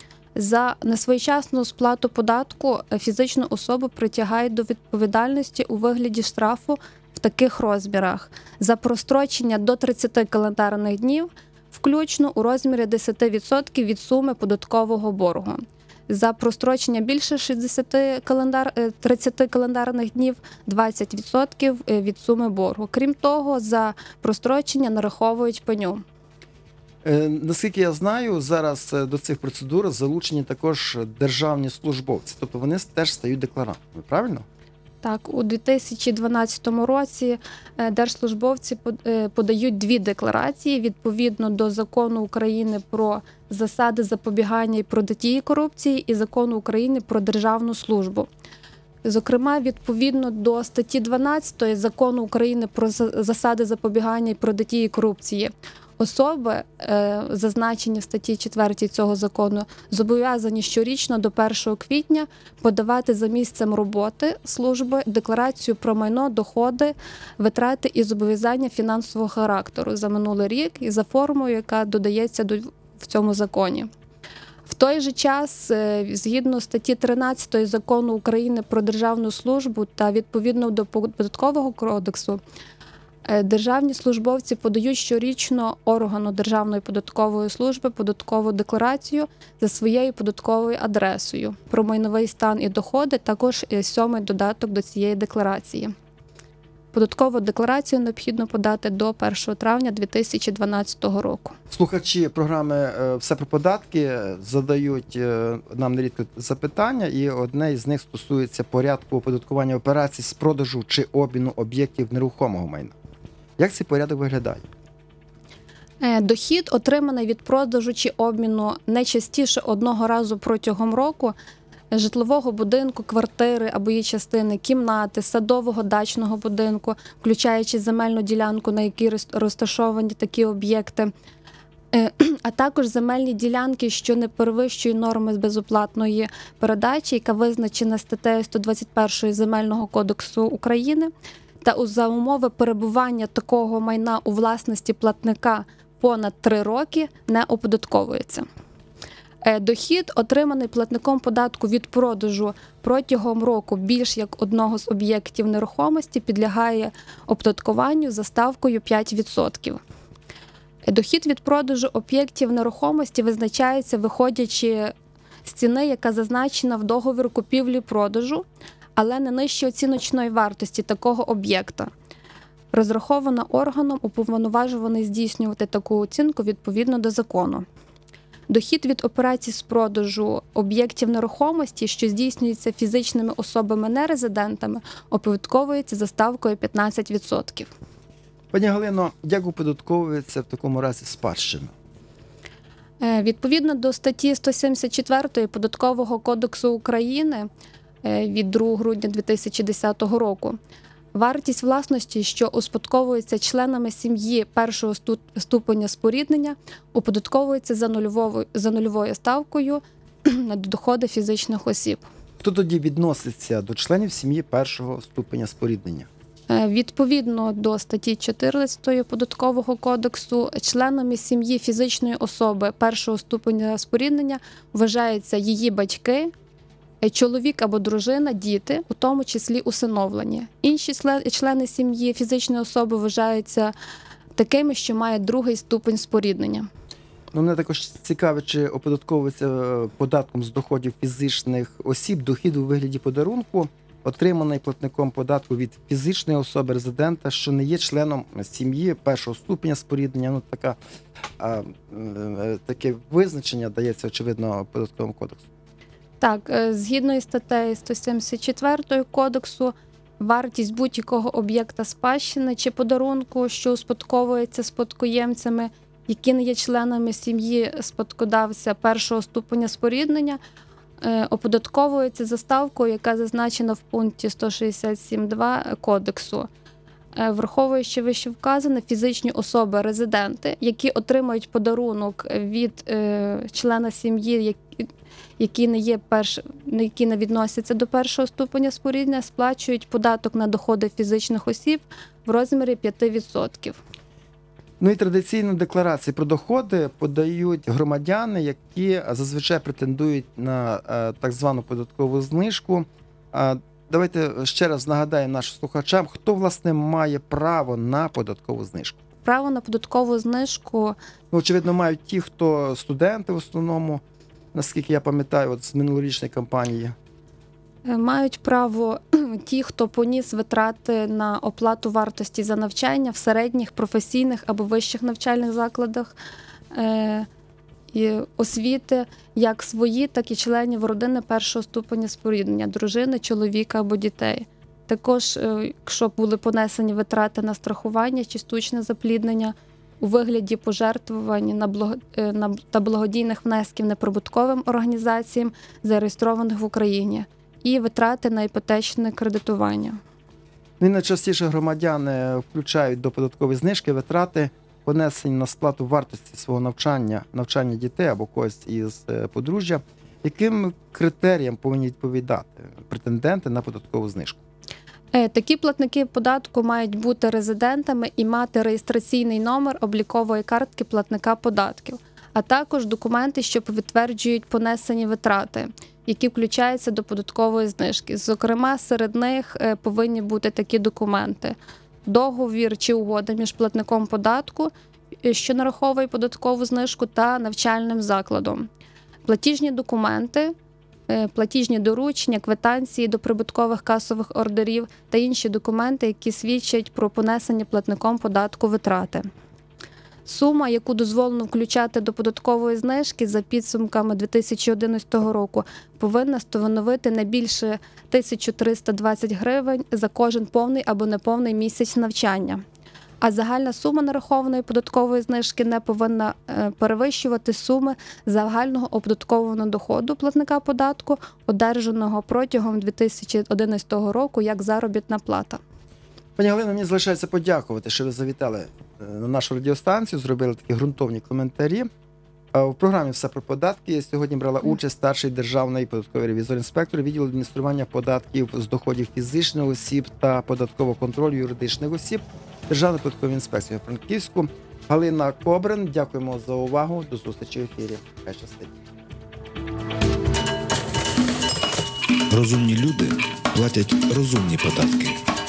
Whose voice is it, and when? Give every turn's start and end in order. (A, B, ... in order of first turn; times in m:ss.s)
0:00.4-0:26.0 A
0:27.0-0:34.4 B
0:35.0-0:48.3 A
0:49.0-1:13.9 A
1:14.7-1:22.4 A
1:23.2-1:35.9 A
1:36.9-1:41.6 A
1:41.7-1:53.0 B
1:53.6-1:54.6 B
1:56.0-2:01.4 A
2:01.9-2:11.1 A
2:11.9-2:21.1 A
2:21.6-2:28.4 A
2:29.4-2:39.8 A
2:40.9-2:44.9 A
2:45.4-2:48.4 A
2:49.0-2:51.9 A
2:52.7-2:57.6 A
2:58.5-3:07.7 A
3:08.5-3:11.7 B
3:13.0-3:17.5 A
3:18.0-3:20.6 A
3:21.1-3:32.0 A
3:32.4-3:36.1 B
3:36.5-3:46.3 A
3:47.0-3:53.7 A
3:54.4-3:56.7 A
3:57.3-4:10.8 B
4:11.4-4:15.4 B
4:16.2-4:30.4 A
4:31.0-4:36.5 A
4:37.2-4:44.9 A
4:45.4-4:53.8 A
4:54.8-5:09.0 B
5:09.2-5:11.0 A
5:11.3-5:14.0 B
5:14.5-5:17.0 B
5:17.9-5:26.2 A
5:26.7-5:27.3 A
5:27.9-5:50.0 A
5:50.8-6:04.4 B
6:05.1-6:24.7 A
6:25.2-6:28.6 A
6:29.2-6:30.5 A
6:31.1-6:39.2 A
6:40.2-6:52.6 A
6:53.2-7:05.6 A
7:06.4-7:11.9 B
7:12.5-7:28.7 B
7:32.3-7:35.2 C